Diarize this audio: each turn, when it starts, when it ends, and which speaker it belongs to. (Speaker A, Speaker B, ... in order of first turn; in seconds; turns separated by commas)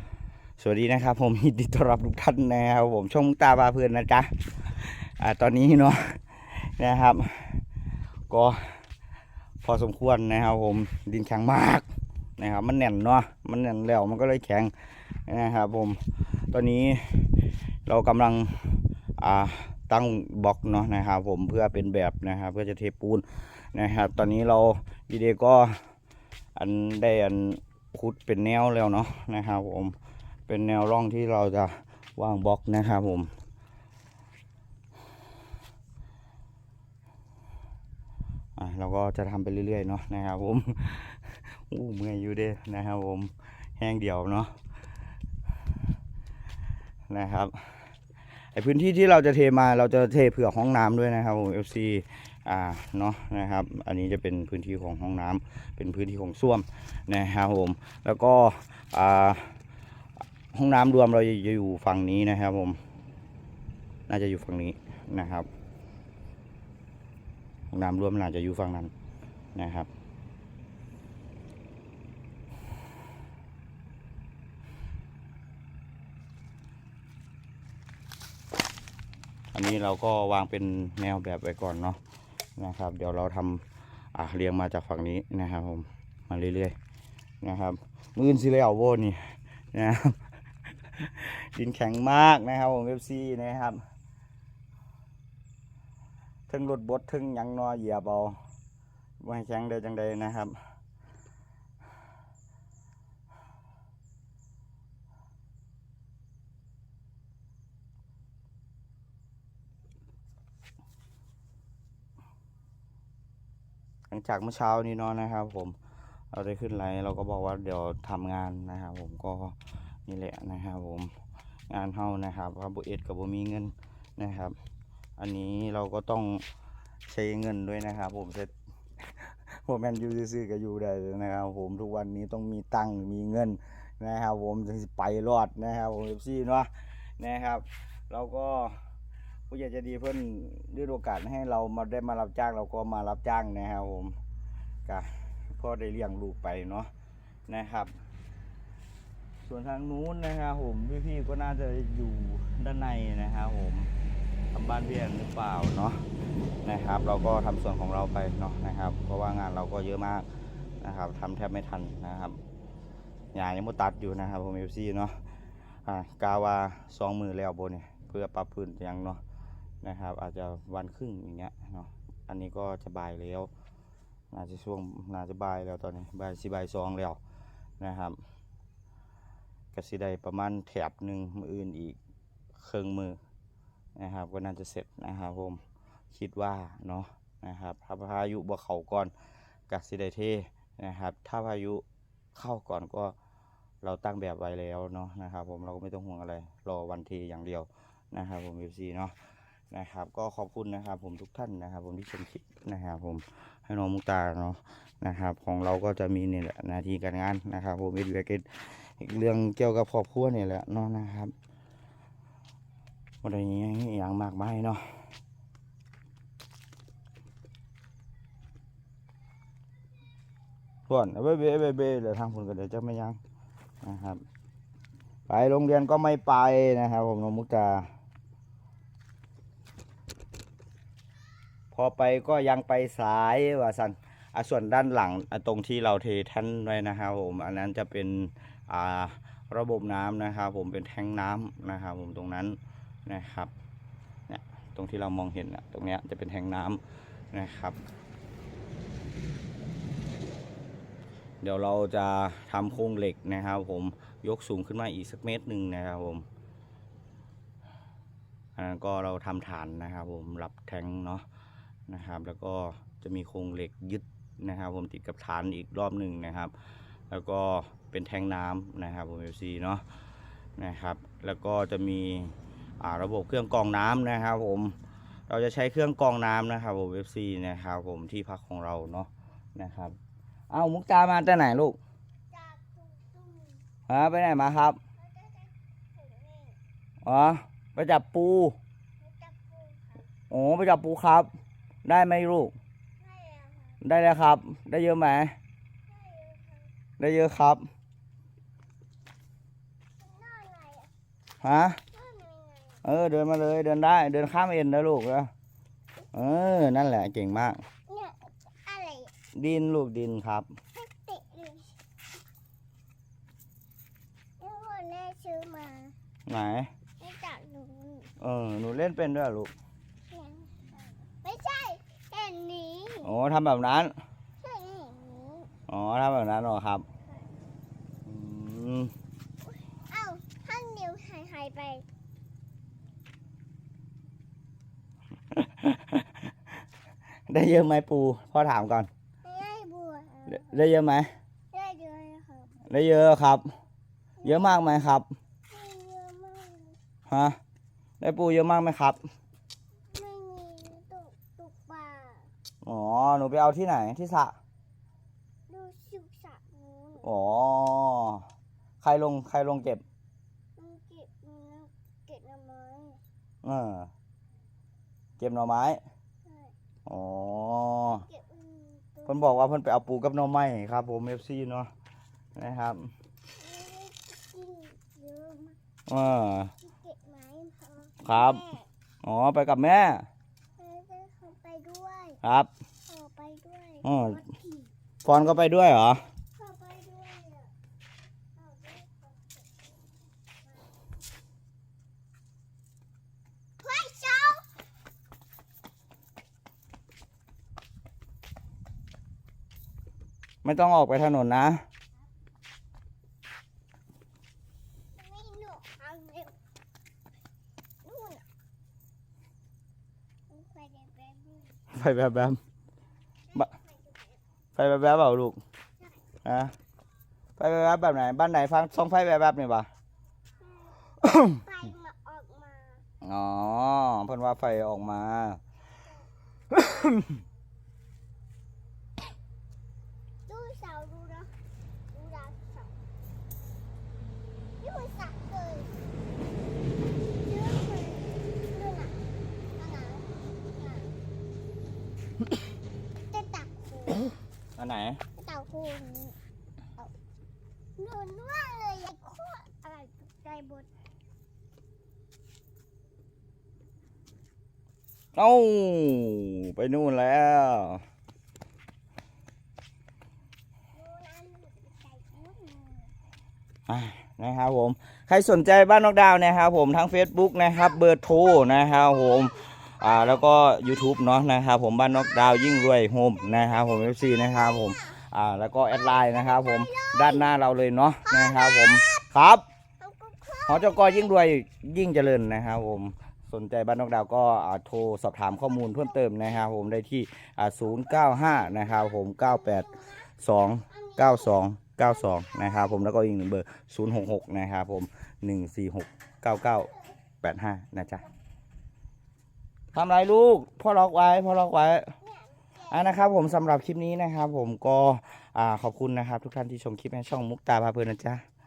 Speaker A: 0.6-7.7, Speaker A: 8.3-8.8, Speaker A: 9.6-11.9, Speaker A: 12.4-25.8, Speaker A: 26.6-30.0, Speaker A: 30.5-33.3, Speaker A: 38.6-44.5, Speaker A: 47.1-47.6, Speaker A: 48.5-59.6, Speaker A: 60.5-62.8, Speaker A: 64.1-65.5, Speaker A: 67.7-68.9, Speaker A: 69.5-69.9, Speaker A: 79.5-82.0, Speaker A: 82.6-86.8, Speaker A: 87.4-90.2, Speaker A: 90.9-93.8, Speaker A: 96.5-98.4, Speaker A: 99.2-100.5, Speaker A: 114.1-115.8, Speaker A: 116.3-121.1, Speaker A: 121.7-124.6, Speaker A: 125.2-126.5, Speaker A: 127.1-128.5, Speaker A: 129.2-138.8, Speaker A: 139.5-144.2, Speaker A: 144.9-146.9, Speaker A: 147.5-147.9, Speaker A: 149.4-153.9, Speaker A: 154.5-156.0, Speaker A: 156.6-160.3, Speaker A: 160.8-162.4, Speaker A: 163.3-165.2, Speaker A: 165.8-169.2, Speaker A: 169.8-173.5, Speaker A: 174.3-177.2, Speaker A: 177.8-178.2, Speaker A: 179.7-182.0, Speaker A: 182.6-183.2, Speaker A: 184.0-189.1, Speaker A: 189.7-191.8, Speaker A: 192.3-193.2, Speaker A: 193.8-199.2, Speaker A: 199.7-211.3, Speaker A: 213.2-214.8, Speaker A: 220.9-223.2, Speaker A: 223.8-224.2, Speaker A: 225.3-227.9, Speaker A: 231.7-243.5, Speaker A: 244.3-247.8, Speaker A: 251.4-256.3, Speaker A: 258.6-261.2, Speaker A: 261.9-266.5, Speaker A: 267.1-269.8, Speaker A: 270.6-274.8, Speaker A: 275.3-280.0, Speaker A: 280.5-281.8, Speaker B: 282.3-283.6, Speaker A: 283.9-284.8, Speaker B: 285.0-286.6, Speaker A: 287.0-288.6, Speaker B: 289.0-290.1, Speaker A: 290.3-291.3, Speaker A: 291.9-292.6, Speaker B: 293.0-293.8, Speaker A: 293.8-295.4, Speaker B: 295.9-296.7, Speaker A: 297.0-297.7, Speaker B: 300.0-300.9, Speaker A: 301.4-301.8, Speaker B: 301.9-302.8, Speaker A: 302.8-305.3, Speaker A: 306.1-307.6, Speaker B: 307.9-309.1, Speaker A: 309.4-310.5, Speaker B: 310.7-311.8, Speaker B: 314.4-316.0, Speaker A: 316.3-316.7, Speaker B: 317.0-318.1, Speaker A: 318.2-319.5, Speaker B: 320.1-323.1, Speaker A: 323.0-323.9, Speaker B: 324.4-325.5, Speaker A: 325.7-326.9, Speaker A: 328.1-328.9, Speaker B: 329.7-331.9, Speaker A: 335.3-336.1, Speaker A: 337.3-338.9, Speaker B: 339.2-340.6, Speaker A: 340.3-341.1, Speaker B: 341.5-342.6, Speaker A: 342.6-343.5, Speaker B: 344.2-344.8, Speaker A: 344.2-345.1, Speaker B: 345.5-346.8, Speaker A: 347.1-347.4, Speaker A: 348.0-349.0, Speaker B: 349.9-352.3, Speaker A: 352.6-354.4, Speaker B: 355.5-357.1, Speaker A: 357.0-358.2, Speaker A: 358.8-359.8, Speaker B: 360.6-363.0, Speaker A: 363.4-363.9, Speaker A: 365.2-365.8, Speaker B: 366.2-366.5, Speaker A: 366.9-368.1, Speaker B: 367.9-369.2, Speaker A: 369.1-371.7, Speaker A: 372.4-372.9, Speaker B: 373.4-375.6, Speaker A: 375.9-376.5, Speaker B: 376.6-378.7, Speaker A: 378.0-378.4, Speaker A: 379.0-380.1, Speaker B: 380.6-382.2, Speaker A: 382.2-382.5, Speaker B: 382.9-384.7, Speaker A: 383.8-384.2, Speaker A: 385.0-386.0, Speaker B: 386.4-387.5, Speaker B: 388.4-389.6, Speaker B: 390.4-390.7, Speaker B: 393.6-394.5, Speaker A: 400.4-401.6, Speaker B: 405.0-406.4, Speaker B: 407.8-408.2, Speaker B: 410.3-411.6, Speaker A: 411.7-412.4, Speaker B: 413.3-414.2, Speaker A: 414.6-415.4, Speaker A: 416.2-416.5, Speaker A: 417.4-419.7, Speaker B: 420.4-422.8, Speaker A: 423.0-425.4, Speaker A: 426.5-427.1, Speaker B: 430.3-431.4, Speaker B: 431.9-432.8, Speaker B: 434.6-435.8, Speaker B: 437.2-439.0, Speaker B: 439.6-440.9, Speaker B: 443.1-444.1, Speaker A: 444.6-445.0, Speaker B: 445.2-446.2, Speaker B: 447.8-450.7, Speaker A: 455.1-457.8, Speaker B: 460.7-462.9, Speaker A: 463.7-479.4, Speaker B: 468.2-471.2, Speaker B: 472.1-472.7, Speaker B: 473.4-475.0, Speaker B: 475.7-477.4, Speaker B: 478.1-479.1, Speaker B: 479.8-481.2, Speaker A: 480.5-498.1, Speaker B: 485.6-486.2, Speaker B: 487.8-490.1, Speaker B: 490.7-492.8, Speaker A: 499.7-501.9, Speaker B: 502.0-503.1, Speaker A: 502.7-508.2